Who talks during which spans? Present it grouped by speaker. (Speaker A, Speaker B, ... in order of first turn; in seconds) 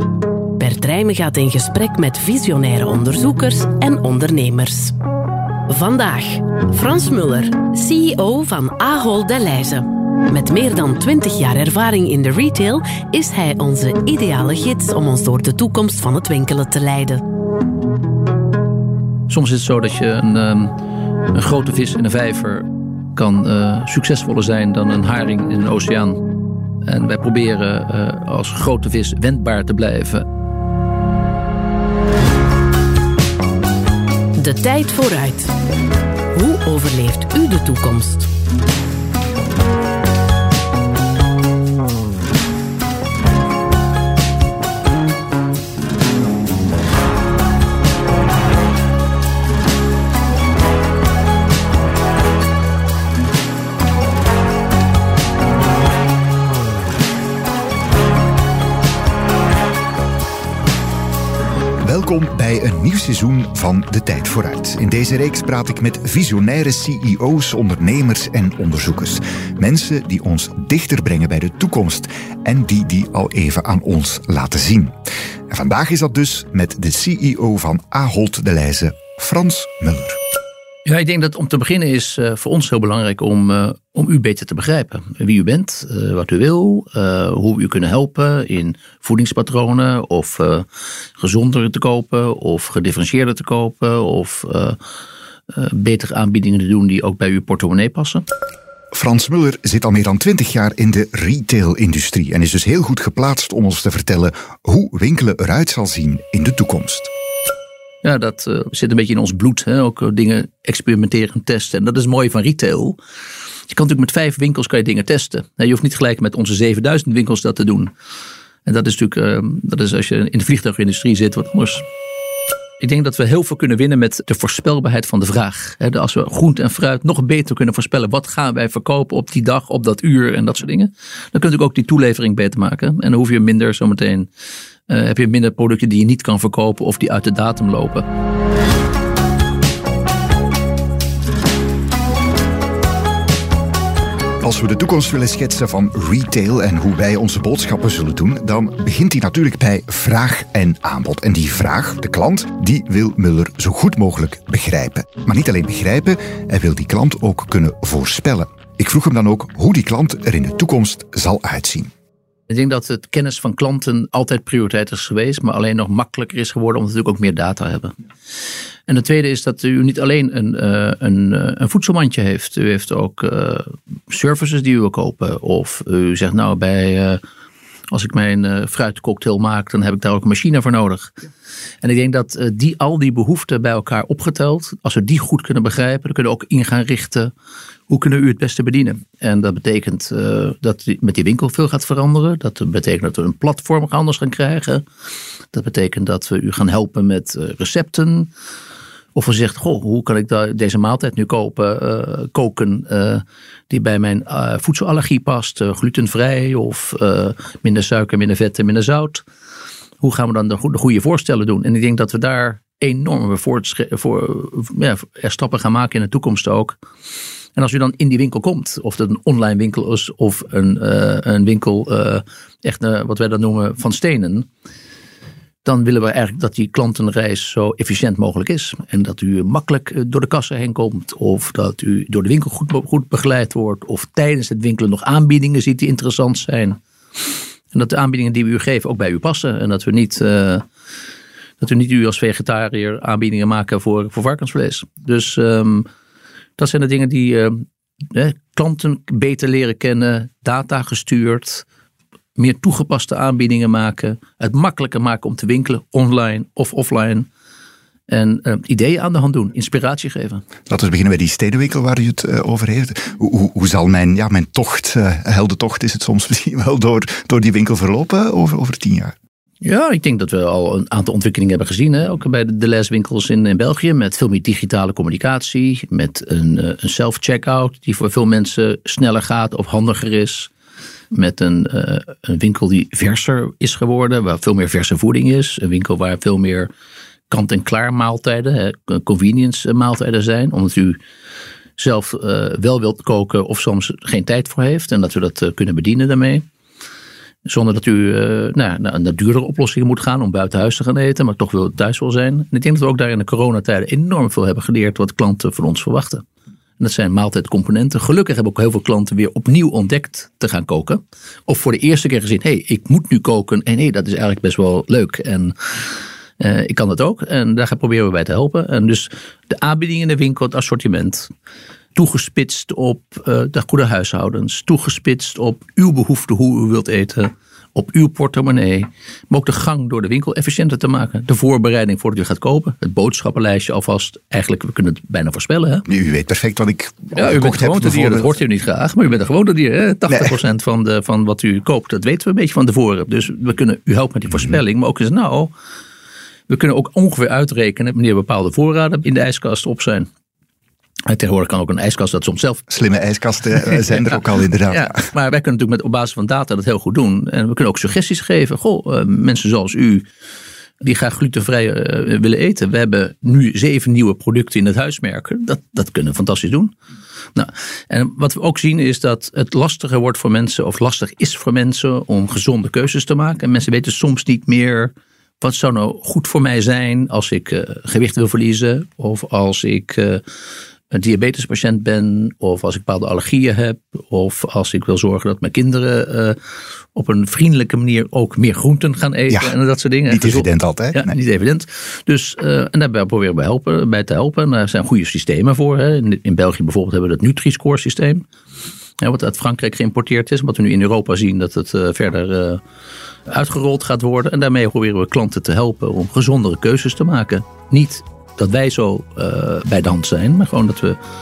Speaker A: 0.6-5.0, 5.7-17.2, 34.4-35.5, 36.3-38.3
Speaker B: 19.3-20.7, 21.3-26.3, 26.8-30.2, 80.8-90.7, 91.2-94.8, 95.5-98.2, 108.0-113.0, 113.7-117.9, 118.6-121.8, 122.8-134.3, 134.9-138.1, 162.5-167.9, 168.9-177.2, 177.9-181.1, 181.8-187.3, 187.9-194.8, 195.5-198.3, 199.1-209.2, 210.0-216.8, 217.6-224.5, 225.6-236.8, 237.7-240.6, 241.6-245.9, 246.6-251.7, 252.3-257.3, 258.1-260.4, 269.6-280.5, 281.1-286.7, 287.3-291.0, 291.8-296.4, 297.4-306.2, 306.8-321.3, 321.9-335.9, 337.1-345.5, 346.5-350.1, 351.1-352.7, 353.6-360.1, 360.8-366.7, 367.3-380.2, 380.9-386.4, 386.9-398.2, 399.0-402.6, 403.3-411.0
Speaker C: 61.8-75.0, 75.5-80.2, 98.9-107.1, 144.4-161.9, 260.7-269.1, 335.9-338.4, 340.1-340.3, 352.7-355.1, 390.1-391.2